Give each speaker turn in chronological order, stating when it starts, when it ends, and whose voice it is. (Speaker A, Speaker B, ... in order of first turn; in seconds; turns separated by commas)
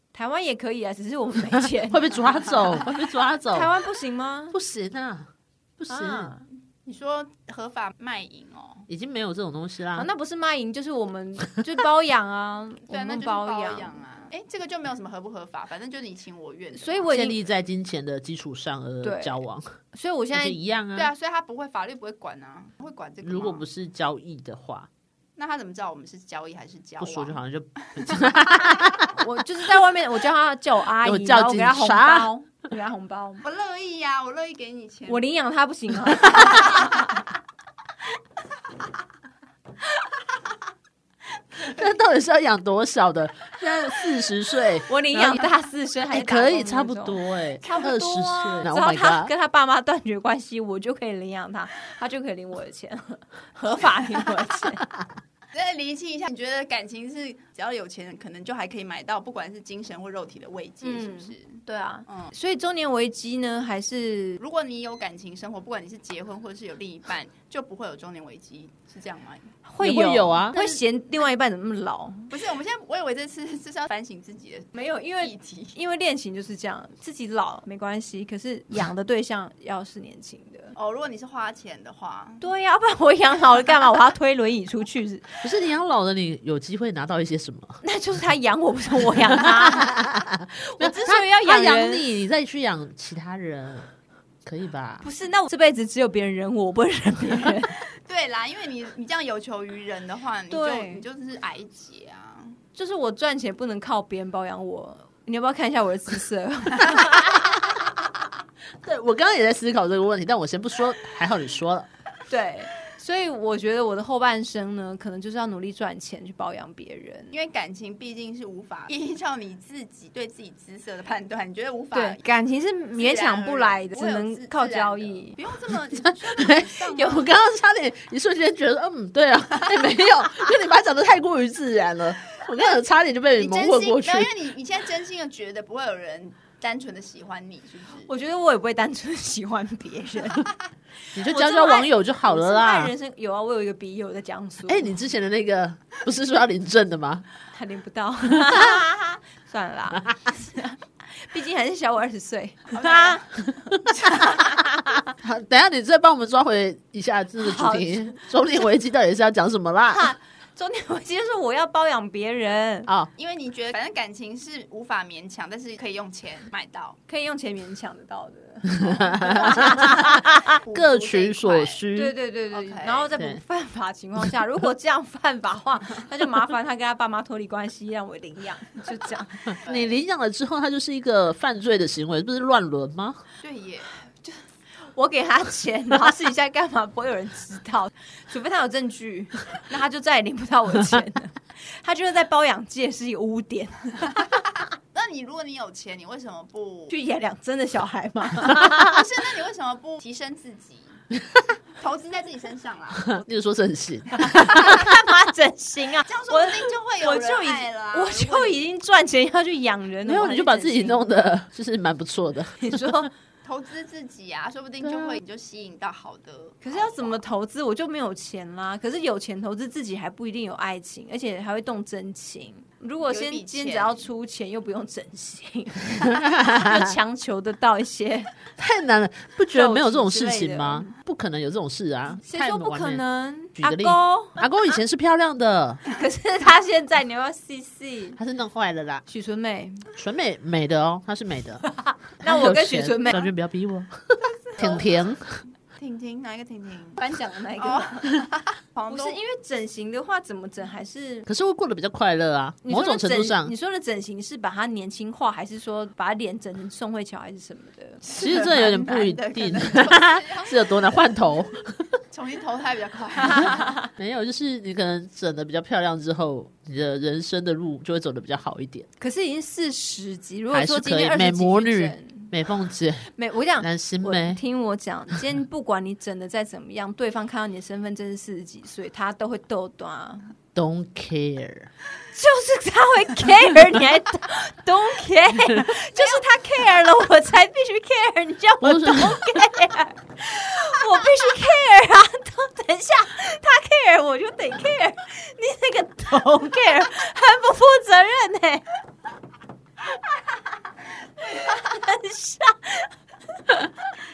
Speaker A: 0.1-2.8, Speaker B: 1.8-3.7, Speaker A: 3.5-4.6, Speaker B: 4.5-6.3, Speaker A: 5.9-6.4, Speaker C: 6.8-8.9, Speaker B: 8.9-10.1, Speaker A: 9.9-14.0, Speaker C: 12.9-17.1, Speaker A: 16.7-17.4, Speaker B: 17.1-19.7, Speaker A: 19.0-19.4, Speaker A: 19.9-20.6, Speaker B: 20.3-21.1, Speaker C: 20.9-23.6, Speaker B: 23.2-24.9, Speaker C: 25.4-27.4, Speaker B: 27.0-29.2, Speaker C: 28.0-28.8, Speaker A: 29.2-33.4, Speaker B: 31.0-32.3, Speaker C: 33.4-35.2, Speaker A: 35.1-37.3, Speaker C: 36.4-36.9, Speaker B: 41.6-45.5, Speaker A: 44.9-54.9, Speaker B: 46.1-49.3, Speaker C: 55.5-62.3, Speaker A: 60.8-64.4, Speaker C: 64.4-69.5, Speaker A: 69.7-72.3, Speaker B: 69.8-70.6, Speaker C: 72.3-75.8, Speaker A: 74.7-80.7, Speaker C: 80.8-82.4, Speaker A: 82.4-85.4, Speaker B: 85.4-87.8, Speaker A: 87.8-89.9, Speaker B: 89.4-93.9, Speaker A: 90.7-92.1, Speaker B: 94.4-95.1, Speaker A: 95.0-97.7, Speaker C: 98.0-102.6, Speaker A: 100.5-101.0, Speaker A: 102.7-107.8, Speaker B: 108.8-111.9, Speaker A: 112.3-117.3, Speaker C: 117.3-122.2, Speaker A: 121.9-125.4, Speaker C: 123.0-127.3, Speaker B: 126.0-134.3, Speaker A: 126.9-127.3, Speaker C: 133.3-138.1, Speaker A: 138.0-140.5, Speaker B: 141.1-142.9, Speaker A: 141.2-144.9, Speaker B: 144.7-147.2, Speaker A: 147.5-153.2, Speaker B: 148.4-148.8, Speaker C: 152.7-153.4, Speaker A: 153.9-155.0, Speaker C: 154.0-154.4, Speaker B: 155.1-160.1, Speaker A: 157.4-158.6, Speaker A: 159.9-162.9, Speaker C: 163.2-167.0, Speaker A: 167.1-170.4, Speaker B: 168.7-172.2, Speaker C: 170.6-171.8, Speaker A: 171.9-179.6, Speaker C: 172.5-173.1, Speaker B: 173.1-173.4, Speaker B: 179.6-183.2, Speaker C: 179.7-180.0, Speaker C: 183.4-183.9, Speaker A: 184.9-194.4, Speaker C: 194.9-196.9, Speaker A: 196.9-199.0, Speaker C: 198.5-201.0, Speaker C: 201.8-203.2, Speaker B: 203.1-205.0, Speaker A: 204.4-211.0, Speaker C: 206.0-208.6, Speaker B: 210.0-212.9, Speaker A: 212.6-213.1, Speaker C: 213.4-217.2, Speaker B: 214.8-215.2, Speaker A: 216.6-228.3, Speaker C: 223.1-224.0, Speaker B: 226.0-226.9, Speaker B: 228.6-233.0, Speaker A: 229.5-230.9, Speaker A: 232.2-234.4, Speaker B: 233.6-235.8, Speaker A: 235.9-238.2, Speaker B: 238.2-239.0, Speaker A: 239.1-239.9, Speaker B: 239.9-241.6, Speaker A: 241.7-243.3, Speaker B: 242.2-245.4, Speaker C: 244.2-245.1, Speaker C: 245.8-247.0, Speaker A: 247.0-248.1, Speaker C: 247.6-249.2, Speaker A: 248.9-251.3, Speaker B: 251.3-253.5, Speaker A: 252.6-258.0, Speaker C: 258.0-261.0, Speaker B: 258.1-261.9, Speaker C: 262.1-263.8, Speaker B: 263.9-268.9, Speaker A: 269.0-272.3, Speaker B: 270.5-274.4, Speaker A: 273.1-280.3, Speaker B: 280.5-281.7, Speaker A: 282.1-298.6, Speaker B: 288.6-289.3, Speaker A: 301.2-302.9